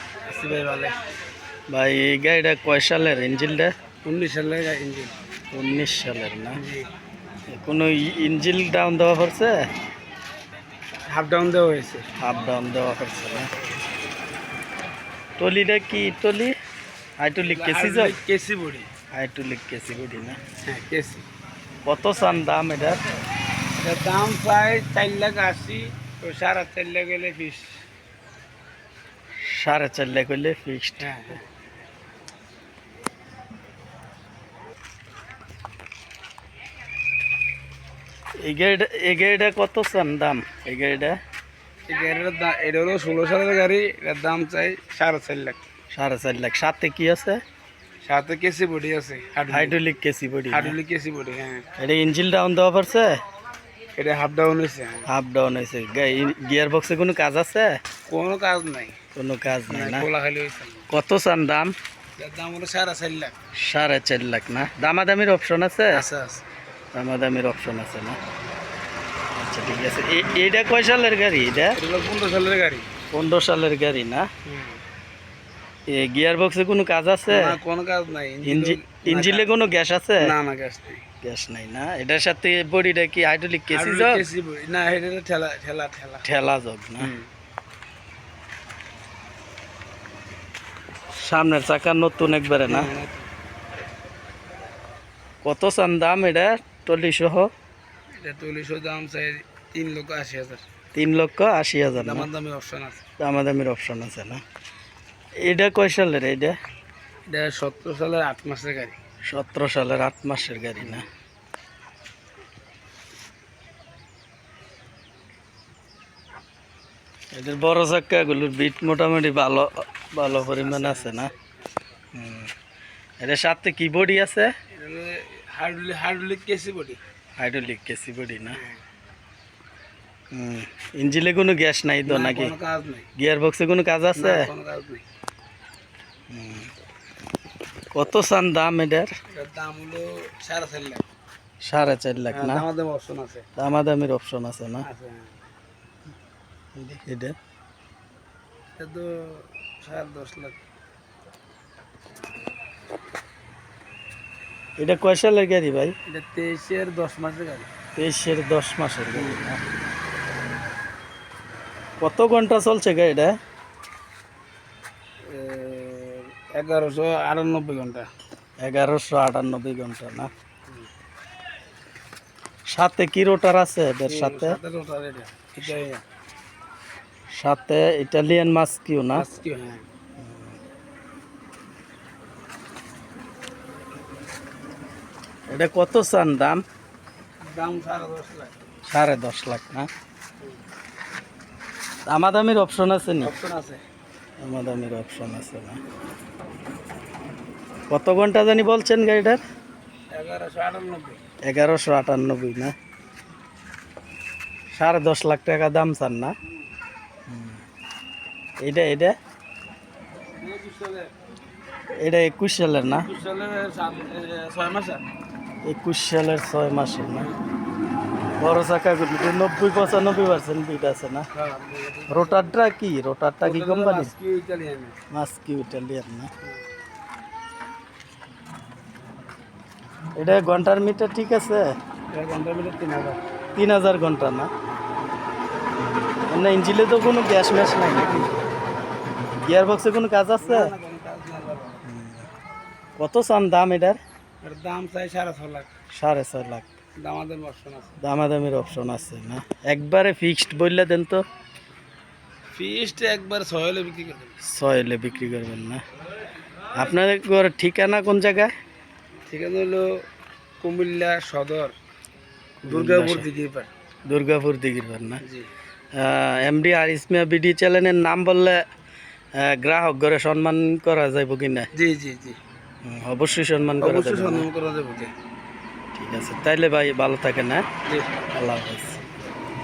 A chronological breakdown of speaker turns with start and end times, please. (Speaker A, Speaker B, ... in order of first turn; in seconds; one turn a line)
Speaker A: 0.3-0.9
Speaker B: 1.7-3.7
Speaker A: 4.0-5.1
Speaker B: 5.5-6.6
Speaker A: 6.5-6.9
Speaker B: 7.5-9.6
Speaker A: 11.1-12.1
Speaker B: 12.2-13.5
Speaker B: 15.4-16.5
Speaker B: 17.2-18.2
Speaker A: 17.4-18.9
Speaker B: 19.1-20.4
Speaker A: 20.6-21.2
Speaker B: 21.9-23.0
Speaker A: 23.8-27.8
Speaker B: 29.4-31.1
Speaker A: 31.0-31.4
Speaker B: 38.4-41.2
Speaker A: 41.9-45.6
Speaker B: 45.9-47.4
Speaker A: 48.0-49.8
Speaker B: 49.5-50.8
Speaker A: 50.5-51.7
Speaker B: 51.8-53.2
Speaker A: 54.0-55.1
Speaker B: 55.1-57.8
Speaker A: 58.1-59.0
Speaker B: 59.1-60.1
Speaker A: 59.7-60.9
Speaker B: 60.9-61.7
Speaker A: 62.2-63.3
Speaker B: 63.5-66.0
Speaker A: 65.9-66.4
Speaker B: 66.9-68.2
Speaker B: 69.3-71.8
Speaker A: 71.7-72.9
Speaker B: 73.1-74.3
Speaker A: 74.5-74.8
Speaker B: 75.9-77.6
Speaker A: 77.3-79.5
Speaker B: 78.4-80.3
Speaker A: 80.2-81.0
Speaker B: 81.2-84.2
Speaker A: 83.7-86.2
Speaker B: 86.2-87.1
Speaker A: 87.0-87.3
Speaker B: 91.2-92.9
Speaker A: 92.7-93.2
Speaker B: 95.4-97.5
Speaker A: 98.1-100.6
Speaker B: 100.9-102.3
Speaker A: 101.9-103.0
Speaker B: 103.2-104.4
Speaker B: 105.4-106.5
Speaker A: 107.3-109.0
Speaker B: 109.3-111.0
Speaker A: 110.8-111.0
Speaker B: 117.3-121.3
Speaker A: 120.2-121.3
Speaker B: 122.1-122.5
Speaker B: 123.2-124.5
Speaker A: 124.7-127.0
Speaker B: 127.4-128.6
Speaker B: 130.3-132.5
Speaker A: 132.1-133.1
Speaker B: 133.2-134.5
Speaker A: 134.1-135.0
Speaker B: 136.3-136.7
Speaker B: 137.9-139.1
Speaker A: 139.3-141.1
Speaker B: 141.6-142.6
Speaker A: 142.3-143.5
Speaker B: 143.6-144.8
Speaker A: 144.8-145.4
Speaker B: 146.7-147.3
Speaker A: 148.8-150.6
Speaker B: 154.8-155.9
Speaker A: 156.1-157.7
Speaker B: 157.9-159.6
Speaker A: 159.1-159.4
Speaker B: 162.0-163.3
Speaker A: 165.3-168.1
Speaker B: 168.6-170.3
Speaker B: 172.7-174.6
Speaker A: 174.1-176.0
Speaker B: 177.3-179.2
Speaker A: 179.1-179.8
Speaker B: 180.2-180.5
Speaker B: 185.5-186.6
Speaker A: 187.4-188.5
Speaker B: 188.9-189.9
Speaker B: 192.1-193.3
Speaker A: 193.2-193.8
Speaker B: 194.4-195.8
Speaker B: 197.9-199.4
Speaker A: 200.1-201.2
Speaker B: 201.4-202.7
Speaker B: 204.7-206.3
Speaker B: 207.3-207.6
Speaker B: 208.6-209.2
Speaker A: 210.4-211.1
Speaker B: 212.0-213.1
Speaker A: 213.0-215.0
Speaker B: 215.6-217.3
Speaker B: 218.4-221.3
Speaker A: 221.3-222.5
Speaker B: 222.1-224.1
Speaker A: 223.4-224.9
Speaker B: 225.1-226.3
Speaker A: 226.4-226.7
Speaker B: 230.2-231.7
Speaker A: 232.1-233.2
Speaker B: 233.5-234.5
Speaker B: 236.3-238.3
Speaker A: 237.9-238.4
Speaker B: 239.4-240.7
Speaker A: 240.4-241.8
Speaker B: 241.8-242.3
Speaker B: 243.0-244.0
Speaker A: 244.4-245.7
Speaker B: 245.9-246.7
Speaker A: 247.0-247.9
Speaker B: 248.0-251.2
Speaker A: 252.5-254.3
Speaker B: 254.4-255.8
Speaker B: 256.7-258.5
Speaker A: 259.3-259.9
Speaker A: 260.6-261.7
Speaker A: 262.6-263.7
Speaker B: 262.7-263.3
Speaker B: 264.1-265.2
Speaker A: 265.2-265.5
Speaker B: 265.9-268.6
Speaker B: 269.4-271.7
Speaker A: 271.7-272.4
Speaker B: 272.8-274.5
Speaker A: 273.8-275.1
Speaker B: 275.9-277.6
Speaker A: 277.8-278.1
Speaker B: 278.3-279.0